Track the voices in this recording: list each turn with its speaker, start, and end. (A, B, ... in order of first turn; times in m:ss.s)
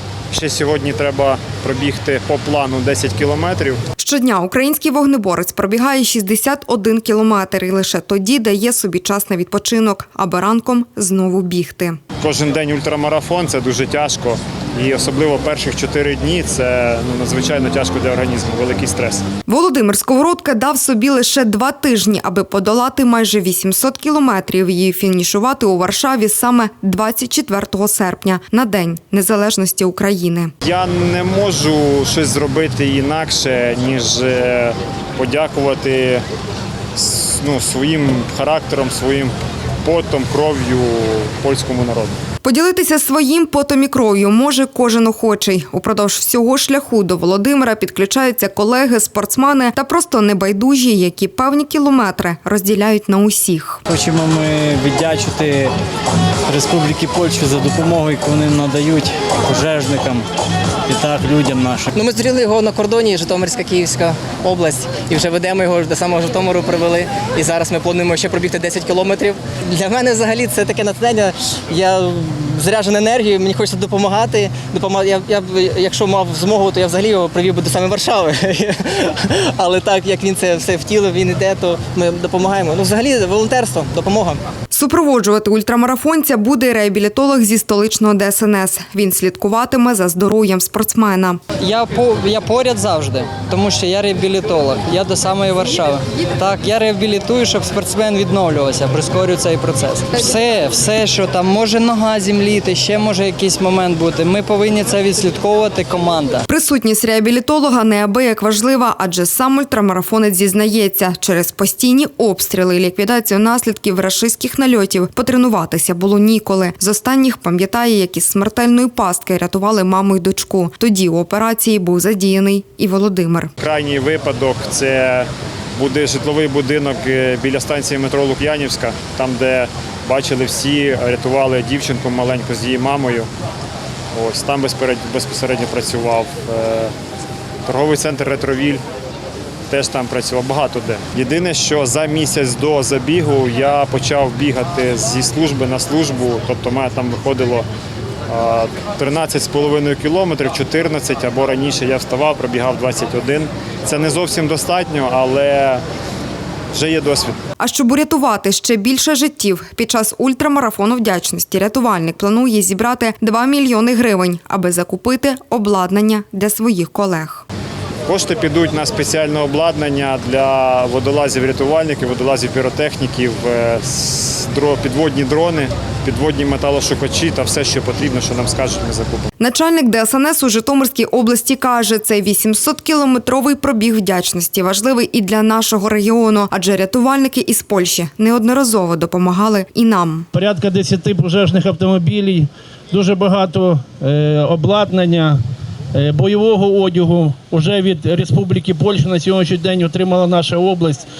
0:00.3-0:03.8 A
0:04.0-0:12.0 B
0:12.2-0:19.2 A
0:19.5-0:30.5 B
0:30.6-0:36.2 A
0:37.0-0:39.3 A
0:39.8-0:42.1 A
0:42.4-0:53.8 B
0:53.9-0:55.7 C
0:56.5-1:00.2 C
1:00.9-1:02.0 C
1:02.0-1:11.2 D
1:11.7-1:18.7 D
1:19.6-1:24.4 D
1:24.7-1:31.4 B
1:31.6-1:46.4 E
1:46.5-2:03.5 B
2:03.6-2:05.3 A
2:05.8-2:13.3 A
2:14.2-2:16.9 A
2:17.7-2:18.8 A
2:19.7-2:27.7 A
2:28.3-2:35.8 A
2:36.7-2:37.4 A
2:37.6-2:47.5 B
2:48.1-2:59.3 A
2:59.4-3:10.3 B
3:10.4-3:15.4 F
3:16.1-3:21.1 F